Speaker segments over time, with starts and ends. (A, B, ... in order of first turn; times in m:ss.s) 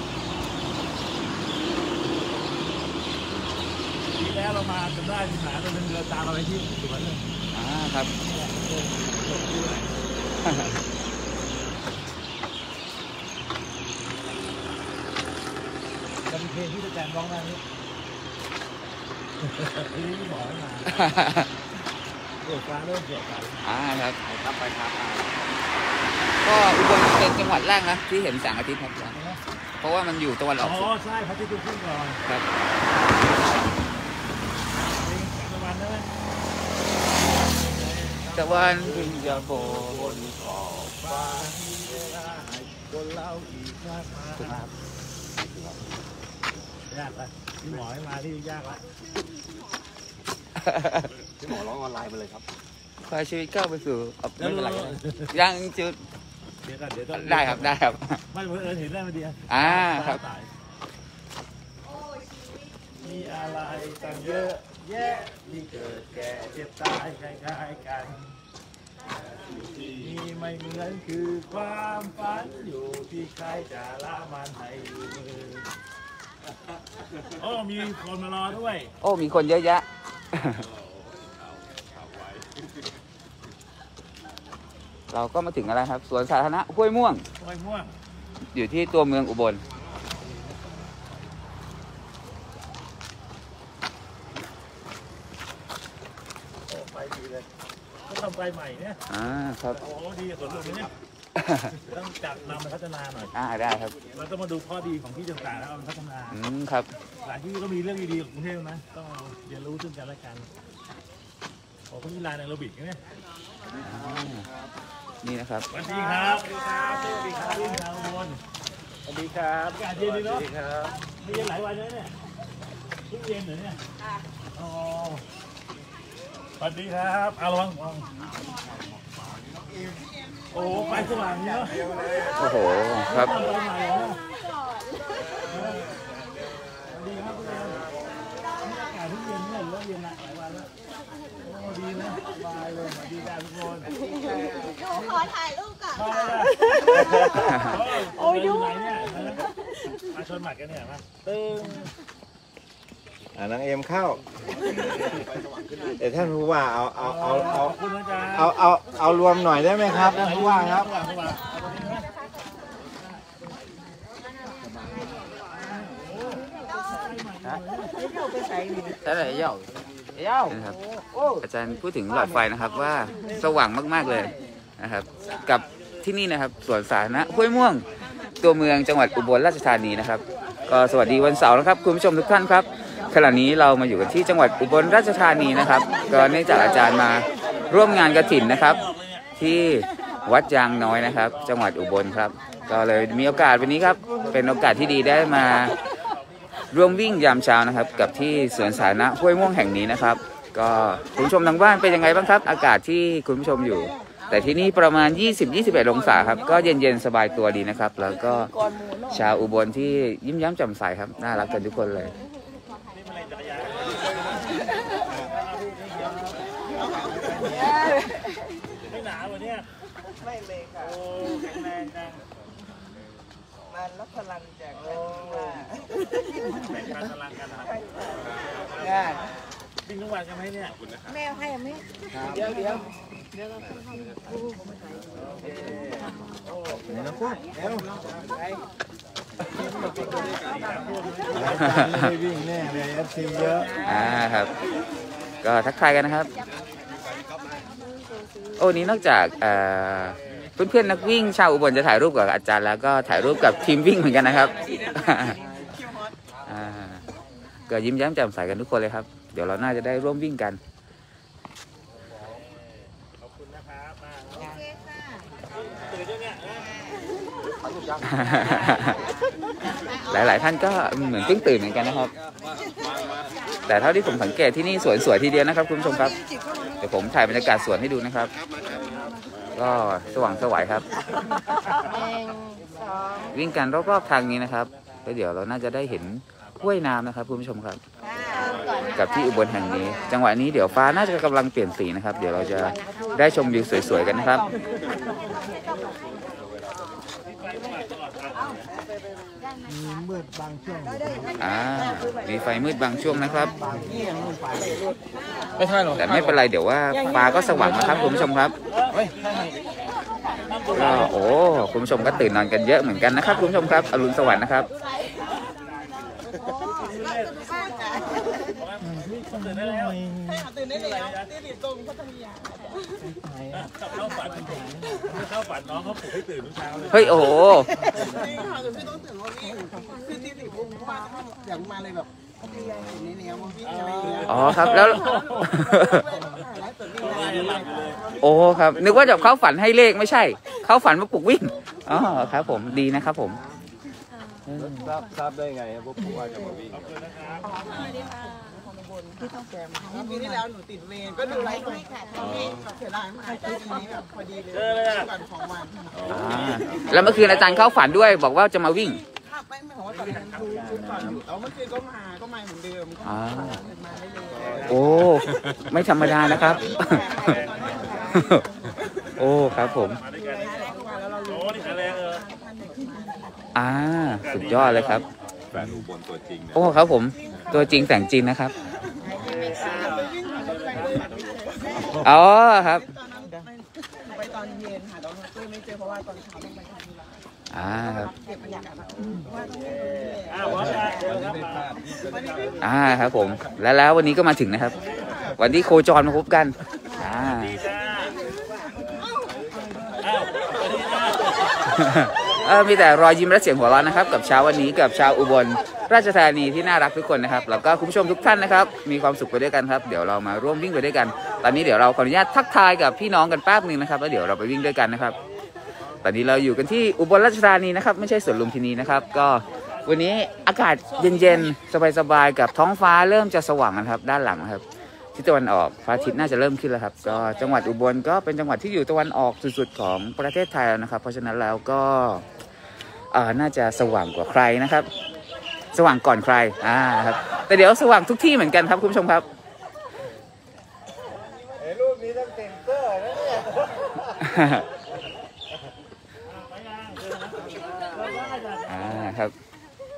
0:04.1-0:07.2 A
0:07.5-0:08.1 B
0:08.2-0:09.9 A
0:10.4-0:10.7 B
0:16.3-0:17.6 A
0:19.4-0:20.9 A
0:20.9-0:21.5 B
0:22.4-0:23.6 A
0:23.6-0:24.2 B
0:24.2-0:25.4 C
0:26.4-0:29.1 B
0:29.1-0:29.4 A
0:29.8-0:30.9 B
0:30.6-0:32.2 A
0:34.7-0:36.1 A
0:38.3-0:40.2 B
0:38.6-0:40.2 A
0:40.2-0:40.9 D
0:41.0-0:44.6 A
0:44.4-0:44.7 B
0:45.5-0:45.8 D
0:46.9-0:48.8 A
0:50.6-0:51.1 B
0:51.4-0:52.4 C
0:53.0-0:56.0 B
0:54.4-0:55.3 A
0:56.6-0:57.7 A
0:57.1-0:58.2 B
0:58.3-1:00.5 A
0:59.5-1:00.2 B
1:03.0-1:08.3 A
1:09.7-1:10.2 E
1:09.9-1:15.6 A
1:17.3-1:18.9 A
1:19.0-1:20.6 B
1:25.1-1:27.2 B
1:27.4-1:27.9 A
1:28.5-1:29.6 B
1:36.7-1:37.4 A
1:38.1-1:39.0 A
1:39.1-1:39.8 B
1:39.8-1:40.9 A
1:41.4-1:41.7 B
1:41.7-1:43.3 A
1:43.3-1:43.9 B
1:44.1-1:46.4 A
1:46.3-1:46.9 B
1:47.2-1:50.5 A
1:51.9-1:53.0 A
1:53.7-1:54.4 B
1:55.2-1:55.7 B
1:55.7-1:58.4 A
1:59.1-2:00.9 E
1:59.7-2:00.5 A
2:01.1-2:02.1 A
2:03.1-2:03.8 A
2:04.5-2:05.2 A
2:06.6-2:08.1 A
2:09.4-2:10.0 E
2:10.5-2:11.8 A
2:10.6-2:11.2 F
2:10.9-2:12.6 E
2:12.2-2:15.4 G
2:12.4-2:13.4 B
2:13.0-2:14.2 A
2:15.5-2:18.0 E
2:15.5-2:15.8 A
2:16.9-2:17.8 A
2:18.6-2:20.7 A
2:21.4-2:23.9 A
2:24.0-2:24.8 F
2:24.1-2:29.5 G
2:25.9-2:29.4 A
2:27.4-2:27.8 B
2:30.1-2:31.9 A
2:33.3-2:35.3 E
2:35.9-2:37.8 E
2:37.0-2:38.6 A
2:38.3-2:40.9 E
2:39.9-2:42.0 A
2:45.6-2:47.9 A
2:48.1-2:48.6 F
2:49.1-2:49.4 B
2:50.4-2:50.8 B
2:51.4-2:57.8 B
2:55.2-2:55.6 A
2:58.4-3:08.8 B
3:07.7-3:09.2 A
3:09.4-3:15.8 B
3:16.7-3:28.5 B
3:28.5-3:29.2 F
3:29.1-3:32.1 B
3:32.9-3:36.4 A
3:37.3-3:38.2 F
3:38.9-3:39.6 A
3:40.3-3:41.0 F
3:40.8-3:42.2 A
3:43.8-3:45.0 F
3:44.9-3:45.6 A
3:46.5-3:49.0 A
3:49.8-3:50.8 A
3:50.8-3:51.1 D
3:52.1-3:52.5 E
3:56.8-3:57.9 E
4:00.4-4:01.9 A
4:01.3-4:03.8 E
4:01.6-4:02.1 B
4:03.8-4:04.5 B
4:05.4-4:06.3 B
4:08.6-4:15.4 B
4:14.5-4:16.2 F
4:16.4-4:17.0 B
4:17.7-4:20.6 B
4:22.3-4:24.6 A
4:25.5-4:26.8 A
4:27.7-4:28.5 C
4:28.0-4:29.0 B
4:30.1-4:32.1 B
4:33.6-4:36.2 B
4:36.8-4:38.3 B
4:39.5-4:40.9 B
4:43.3-4:47.8 B
4:48.8-4:54.5 B
4:57.2-4:58.7 A
4:59.6-5:01.4 E
5:01.4-5:03.6 B
5:03.2-5:04.8 E
5:05.9-5:08.5 B
5:08.7-5:09.6 A
5:09.2-5:11.0 G
5:10.4-5:11.2 A
5:10.7-5:14.7 B
5:13.2-5:14.1 A
5:16.4-5:18.5 F
5:16.5-5:17.3 A
5:18.5-5:20.0 A
5:19.1-5:20.2 E
5:20.2-5:23.0 F
5:20.8-5:21.2 A
5:23.1-5:23.6 E
5:23.5-5:27.3 A
5:26.9-5:27.7 B
5:27.3-5:38.4 F
5:33.6-5:35.7 A
5:34.2-5:36.0 B
5:37.0-5:38.1 A
5:38.2-5:43.4 B
5:44.1-5:45.0 G
5:44.4-5:44.8 B
5:44.6-5:47.0 D
5:46.7-5:47.5 A
5:47.4-5:57.3 F
5:47.6-5:48.6 G
5:51.4-5:51.8 G
5:52.2-5:52.6 D
5:54.5-5:55.1 A
5:56.0-5:57.8 A
5:56.1-5:59.0 B
5:59.1-6:05.2 F
6:00.4-6:01.0 E
6:03.0-6:03.6 B
6:04.5-6:05.1 A
6:04.7-6:07.4 B
6:05.9-6:09.2 F
6:06.3-6:08.3 A
6:08.1-6:08.4 B
6:09.1-6:12.2 A
6:09.2-6:10.0 B
6:09.8-6:13.5 F
6:13.5-6:15.0 B
6:14.2-6:15.1 A
6:15.5-6:16.7 D
6:16.5-6:18.5 B
6:17.3-6:18.0 F
6:19.0-6:31.4 F
6:19.2-6:21.2 A
6:21.8-6:22.1 A
6:22.0-6:22.8 B
6:27.5-6:28.1 B
6:29.7-6:30.5 E
6:30.3-6:32.1 A
6:31.5-6:32.0 D
6:32.0-6:32.8 F
6:32.1-6:32.5 E
6:32.6-6:34.8 B
6:35.4-6:37.6 B
6:37.1-6:38.2 A
6:38.0-6:38.6 F
6:40.0-6:41.8 A
6:41.7-6:55.2 B
6:56.0-7:04.6 B
7:05.1-7:12.2 B
7:13.1-7:14.9 B
7:15.7-7:19.2 B
7:21.5-7:24.2 E
7:24.2-7:24.6 B
7:26.2-7:29.2 A
7:28.7-7:29.3 B